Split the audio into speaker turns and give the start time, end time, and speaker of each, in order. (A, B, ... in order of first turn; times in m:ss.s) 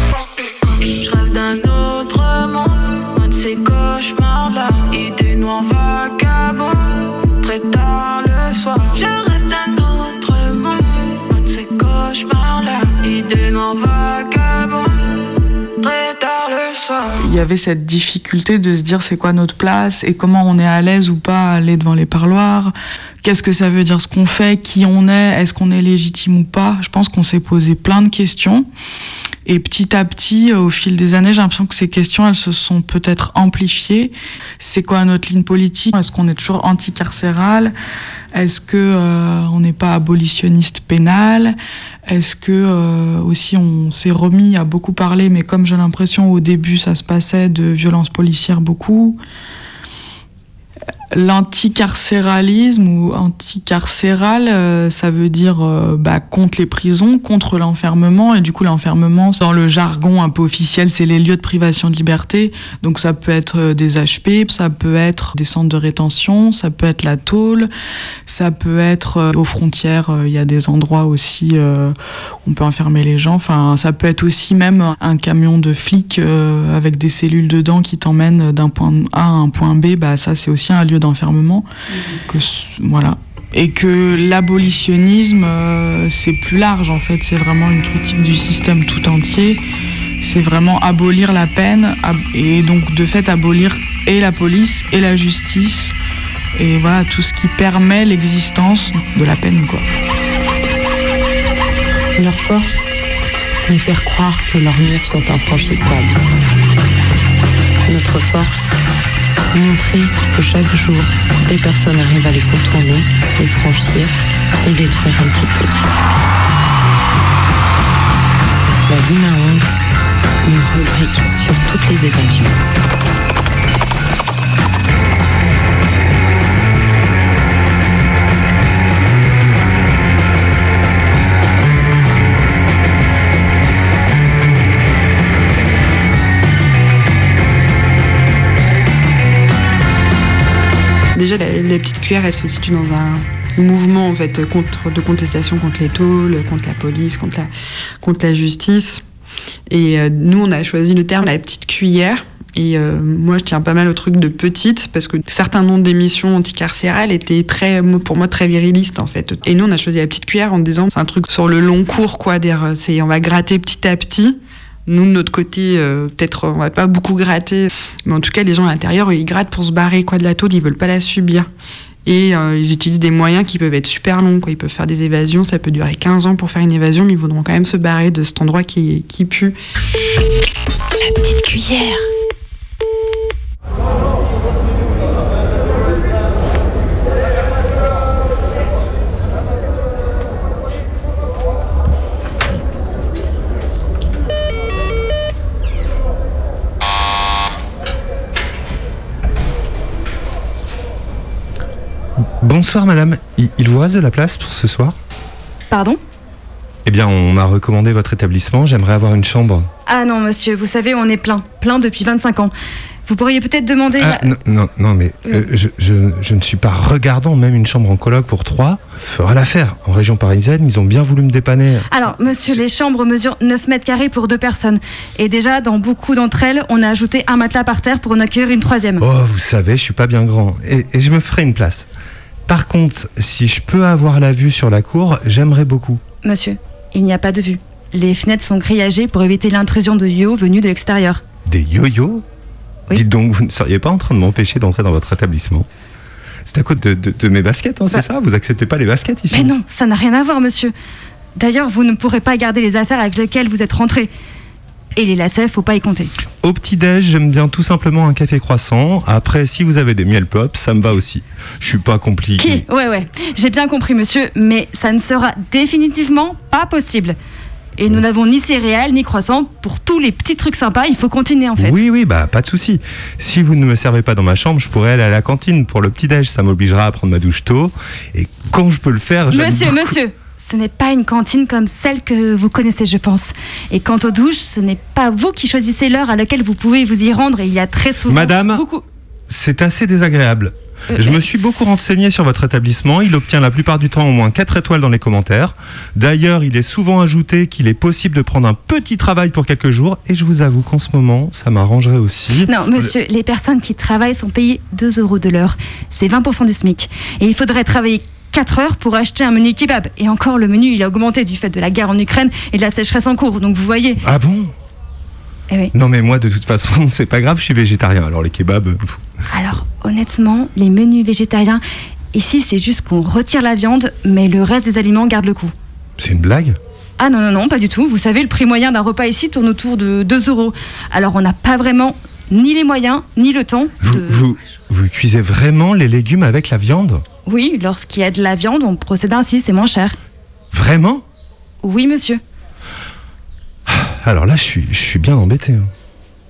0:00.2-0:15.2 A
0:15.8-0:17.2 A
0:17.2-0:28.7 B
0:29.5-0:37.7 B
0:38.3-0:41.6 B
0:42.1-0:49.2 B
0:51.1-1:07.7 B
1:08.3-1:21.7 B
1:22.3-1:29.6 B
1:30.2-1:36.0 B
1:36.6-1:39.9 B
1:43.7-1:46.1 C
1:47.9-1:48.4 C
1:49.6-1:54.1 C
1:54.7-1:55.6 C
1:58.9-1:59.6 C
2:00.5-2:02.5 C
2:21.2-2:27.5 D
2:28.0-2:29.0 D
2:29.7-2:51.5 D
2:52.0-2:59.6 D
3:01.0-3:02.0 E
3:22.4-3:25.0 F
3:25.7-3:26.0 E
3:26.8-3:29.7 F
3:29.9-3:32.5 E
3:33.1-3:34.3 E
3:34.0-3:42.6 F
3:41.9-3:49.0 E
3:49.0-3:51.9 F
3:52.5-3:56.0 F
3:56.2-4:01.2 E
4:01.5-4:02.2 F
4:02.9-4:05.7 F
4:06.5-4:09.6 F
4:09.3-4:10.7 E
4:11.4-4:14.1 E
4:15.0-4:16.1 E
4:16.4-4:22.6 F
4:22.4-4:27.2 E
4:27.8-4:31.8 E
4:31.6-4:40.0 F
4:39.3-4:48.8 E
4:48.1-4:48.6 F
4:49.3-5:02.9 F
4:50.9-4:51.2 E
5:02.5-5:14.0 E
5:14.0-5:14.5 F
5:15.7-5:19.0 F
5:19.3-5:21.6 E
5:22.1-5:25.5 E
5:26.0-5:26.6 F
5:27.0-5:34.2 E
5:33.8-5:37.0 F
5:37.3-5:40.0 E
5:40.5-5:41.0 F
5:41.6-5:42.2 E
5:43.7-5:45.7 F